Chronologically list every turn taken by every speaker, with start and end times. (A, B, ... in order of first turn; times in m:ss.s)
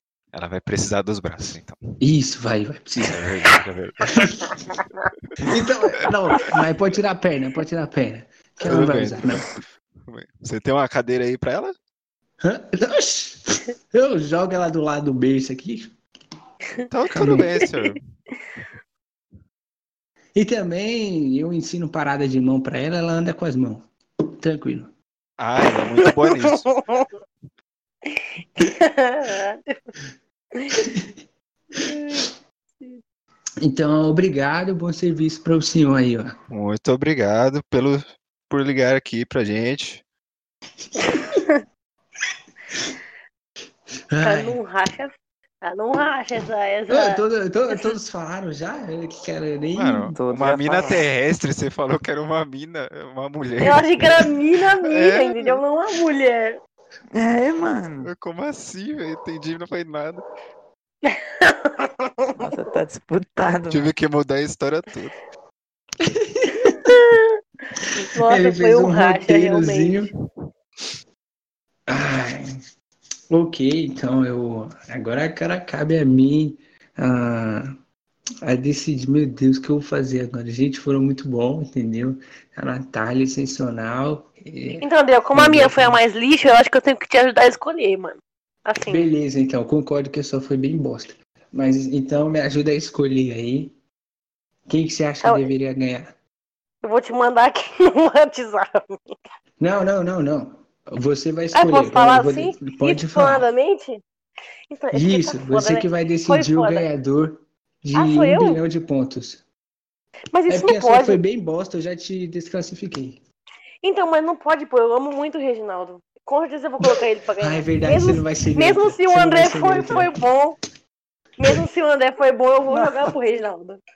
0:00.3-0:01.8 A
0:02.0-0:03.5 B
0:03.1-0:04.6 A
0:04.1-0:04.4 B
0:05.4-0:09.5 B
0:06.0-0:06.6 A
0:08.6-0:11.8 A
0:12.4-0:15.9 B
0:16.9-0:18.0 A
0:17.1-0:17.5 B
0:20.4-0:24.9 B
0:25.4-0:26.8 A
0:26.0-0:27.0 C
0:28.1-0:29.8 C
0:30.6-0:30.8 C
0:30.8-0:31.1 B
0:31.8-0:32.3 C
0:33.6-0:36.3 B
0:36.5-0:40.0 A
0:41.0-0:41.6 C
0:41.1-0:41.4 B
0:44.1-0:44.6 B
0:44.2-0:47.9 C
0:46.9-0:50.1 B
0:49.8-0:54.3 A
0:50.1-0:51.0 D
0:53.6-0:56.6 C
0:54.8-0:55.6 A
0:57.1-0:58.1 D
0:58.0-1:00.2 A
1:01.0-1:02.5 C
1:02.4-1:03.9 D
1:03.7-1:05.2 A
1:06.0-1:06.9 B
1:06.6-1:07.2 C
1:07.8-1:10.1 B
1:08.0-1:10.1 C
1:11.9-1:12.4 B
1:13.3-1:17.7 B
1:18.4-1:26.0 B
1:24.8-1:29.0 C
1:28.9-1:33.8 B
1:34.7-1:36.1 B
1:35.2-1:35.5 C
1:36.8-1:39.2 C
1:39.6-1:43.5 B
1:41.5-1:44.0 C
1:44.7-1:46.9 C
1:44.9-1:49.4 B
1:48.0-1:48.6 C
1:50.3-1:51.2 C
1:50.5-1:53.2 B
1:53.8-2:00.6 C
1:56.9-2:00.1 B
2:01.4-2:03.8 C
2:02.7-2:03.1 B